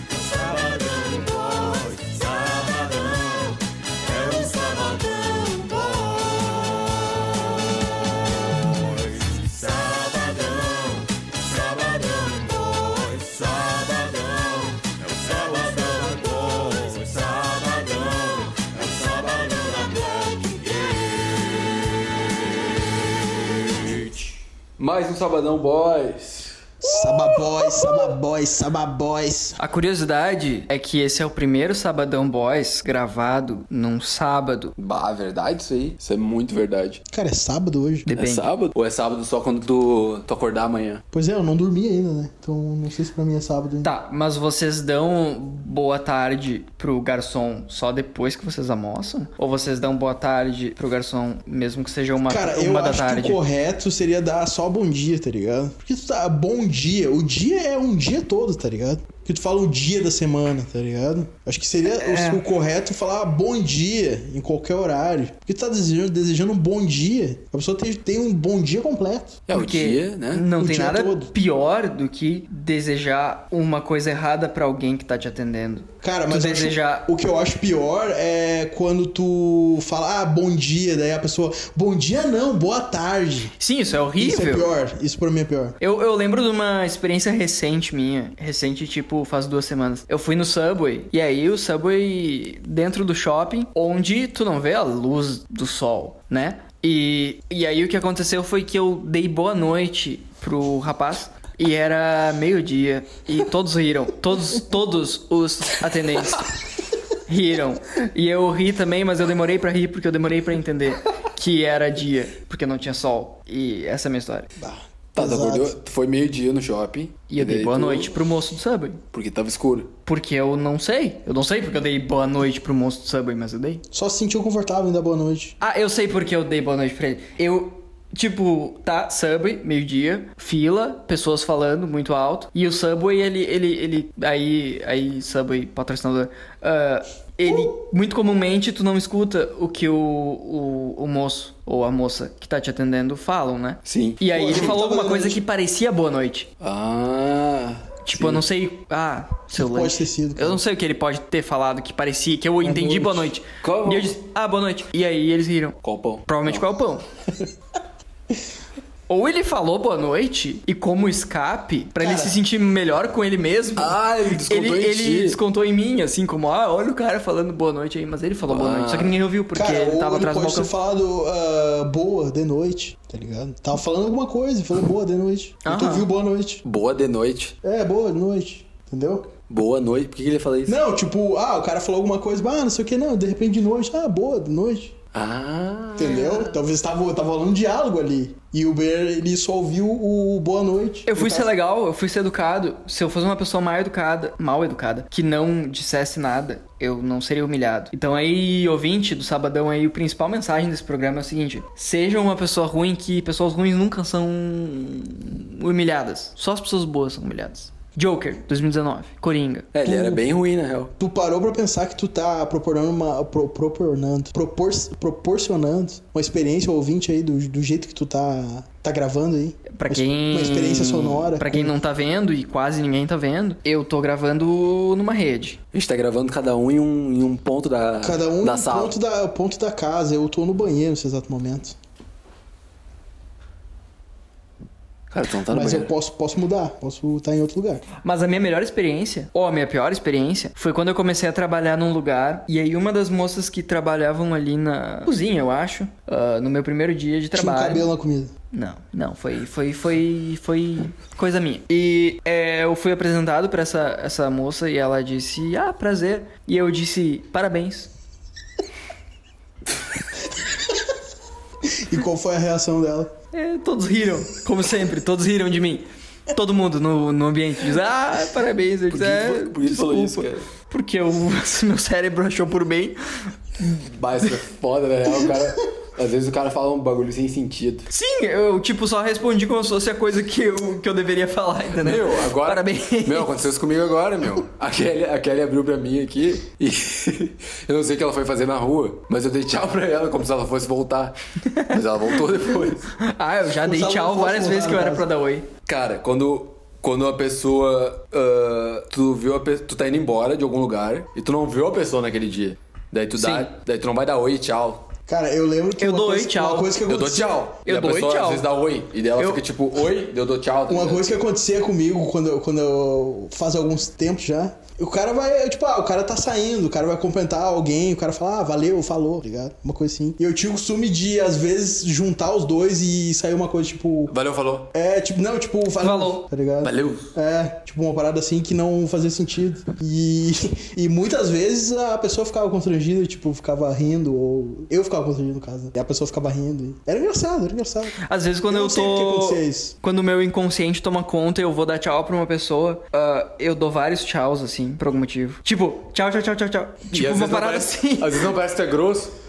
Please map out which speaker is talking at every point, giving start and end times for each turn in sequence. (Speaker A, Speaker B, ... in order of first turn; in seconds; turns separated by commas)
Speaker A: 0.2-7.5, Speaker A: 8.6-24.3, Speaker A: 24.8-26.7, Speaker B: 26.8-29.6, Speaker C: 29.6-34.7, Speaker A: 34.8-37.0, Speaker B: 37.1-38.0, Speaker C: 38.0-38.5, Speaker A: 38.1-41.0, Speaker B: 41.1-43.9, Speaker C: 43.8-53.4, Speaker B: 52.3-69.4, Speaker C: 61.9-62.4, Speaker A: 69.5-70.5, Speaker C: 69.5-77.1, Speaker B: 70.5-71.3, Speaker B: 76.0-83.5, Speaker C: 83.6-84.7, Speaker B: 84.2-85.8, Speaker C: 85.8-106.5, Speaker C: 107.2-114.5, Speaker B: 114.6-115.7, Speaker A: 115.2-118.1, Speaker C: 117.3-119.0, Speaker A: 119.1-119.9, Speaker C: 120.0-123.8, Speaker B: 123.9-125.5, Speaker C: 125.6-146.5, Speaker A: 143.8-144.7, Speaker B: 144.3-145.4, Speaker A: 146.6-148.4, Speaker C: 148.0-157.0, Speaker B: 149.5-150.6, Speaker B: 152.6-153.3, Speaker A: 153.6-154.1, Speaker A: 155.8-156.6, Speaker C: 159.1-170.7, Speaker B: 162.0-162.4, Speaker A: 163.8-165.4, Speaker A: 168.4-169.2, Speaker B: 169.5-176.6, Speaker C: 175.6-176.1, Speaker A: 176.6-177.5, Speaker B: 177.6-179.3, Speaker A: 179.5-180.8, Speaker B: 180.7-184.9, Speaker A: 185.1-186.6, Speaker B: 185.9-191.5, Speaker C: 191.1-209.7, Speaker A: 209.7-210.9, Speaker B: 209.8-210.2, Speaker B: 211.0-221.7, Speaker C: 219.7-225.6, Speaker A: 225.7-228.9, Speaker B: 228.0-231.8, Speaker A: 235.1-235.9, Speaker B: 235.5-237.8, Speaker C: 238.0-247.9, Speaker B: 247.3-248.3, Speaker C: 248.5-257.9, Speaker B: 261.6-263.1, Speaker C: 263.3-273.3, Speaker A: 268.9-270.5, Speaker A: 273.6-277.9, Speaker C: 277.9-283.3, Speaker A: 281.8-291.1, Speaker C: 291.4-291.8, Speaker A: 291.7-292.9, Speaker C: 293.0-295.5, Speaker B: 293.6-295.1, Speaker A: 295.6-304.8, Speaker C: 303.2-303.5, Speaker B: 305.1-307.4, Speaker C: 305.8-306.8, Speaker A: 306.9-311.1, Speaker C: 307.6-308.4, Speaker C: 309.2-309.4, Speaker B: 310.7-324.1, Speaker A: 324.1-324.7, Speaker B: 324.7-339.8, Speaker C: 325.8-326.2, Speaker A: 326.6-327.1, Speaker C: 338.0-348.3, Speaker A: 346.9-349.1